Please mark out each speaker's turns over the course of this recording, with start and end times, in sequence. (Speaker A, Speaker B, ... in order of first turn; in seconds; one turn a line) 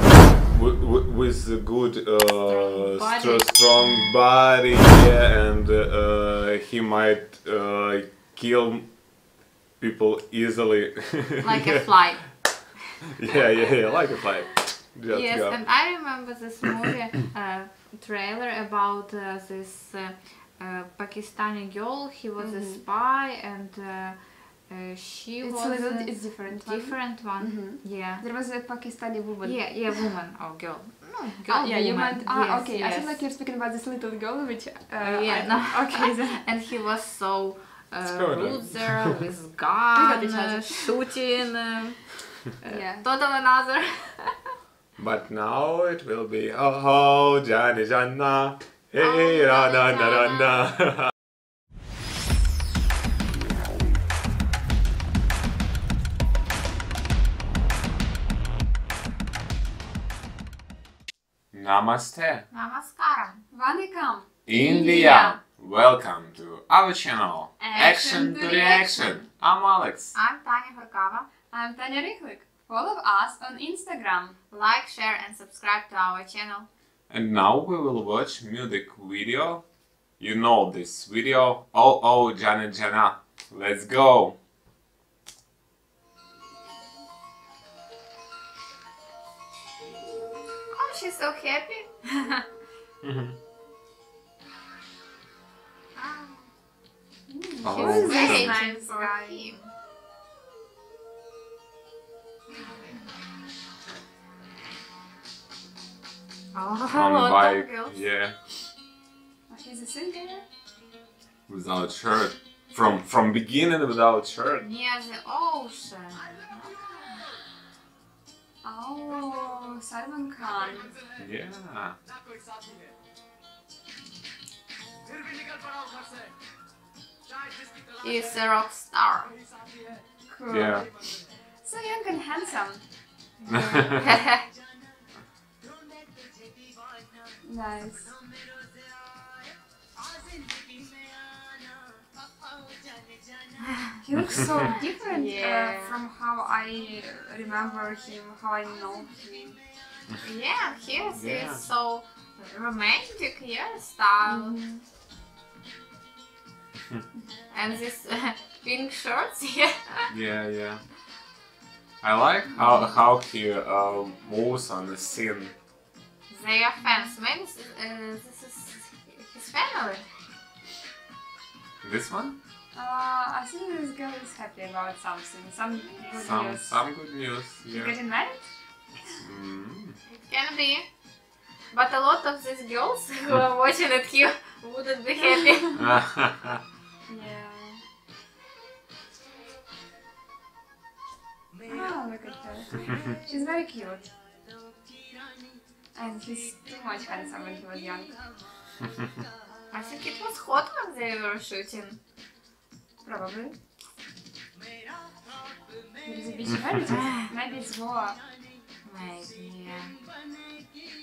Speaker A: 0.5-9.0
Speaker B: 2.4-4.0
Speaker A: 9.8-11.9
Speaker B: 11.4-14.3
Speaker A: 13.1-15.6
Speaker B: 15.1-28.2
Speaker C: 22.4-22.8
Speaker C: 25.4-30.1
Speaker B: 29.4-33.2
Speaker C: 31.5-36.4
Speaker B: 35.0-44.5
Speaker A: 38.0-39.2
Speaker C: 39.9-40.9
Speaker C: 42.7-43.0
Speaker A: 45.0-51.0
Speaker B: 49.0-50.7
Speaker A: 61.5-62.5
Speaker B: 62.5-63.4
Speaker C: 63.5-65.3
Speaker A: 64.5-70.1
Speaker B: 64.5-65.4
Speaker C: 67.6-69.2
Speaker B: 67.7-69.2
Speaker B: 70.1-71.3
Speaker C: 71.5-74.3
Speaker B: 74.5-76.7
Speaker A: 77.1-79.6
Speaker A: 80.2-84.4
Speaker B: 90.7-92.5
Speaker A: 93.0-93.4
Speaker B: 96.0-96.5
Speaker C: 97.3-99.5
Speaker A: 97.6-98.6
Speaker B: 97.6-99.7
Speaker B: 106.5-108.0
Speaker A: 106.9-108.4
Speaker C: 109.5-110.4
Speaker A: 111.5-114.6
Speaker B: 114.6-117.2
Speaker C: 118.6-121.0
Speaker A: 121.2-122.0
Speaker B: 128.0-129.3
Speaker C: 130.3-131.1
Speaker A: 130.5-130.9
Speaker C: 131.6-132.8
Speaker C: 133.4-133.9
Speaker A: 133.5-134.2
Speaker B: 133.5-134.4
Speaker C: 137.4-138.1
Speaker C: 144.0-149.6
Speaker B: 145.1-146.0
Speaker B: 150.2-154.6
Speaker A: 151.1-151.6
Speaker C: 154.2-154.8
Speaker B: 157.5-160.1
Speaker A: 160.1-160.8
Speaker A: 162.0-165.5
Speaker B: 166.3-170.1
Speaker C: 166.8-167.1
Speaker A: 171.8-172.4
Speaker C: 172.7-176.8
Speaker A: 176.2-177.9
Speaker C: 177.7-178.5
Speaker A: 179.2-180.0
Speaker B: 180.1-180.9
Speaker B: 181.7-185.9
Speaker C: 185.2-185.8
Speaker A: 185.8-186.6
Speaker C: 187.1-187.8
Speaker C: 191.6-194.1
Speaker C: 195.9-198.2
Speaker B: 199.7-202.0
Speaker C: 203.0-203.6
Speaker C: 206.0-208.2
Speaker A: 206.4-206.8
Speaker B: 206.9-207.3
Speaker B: 208.8-210.0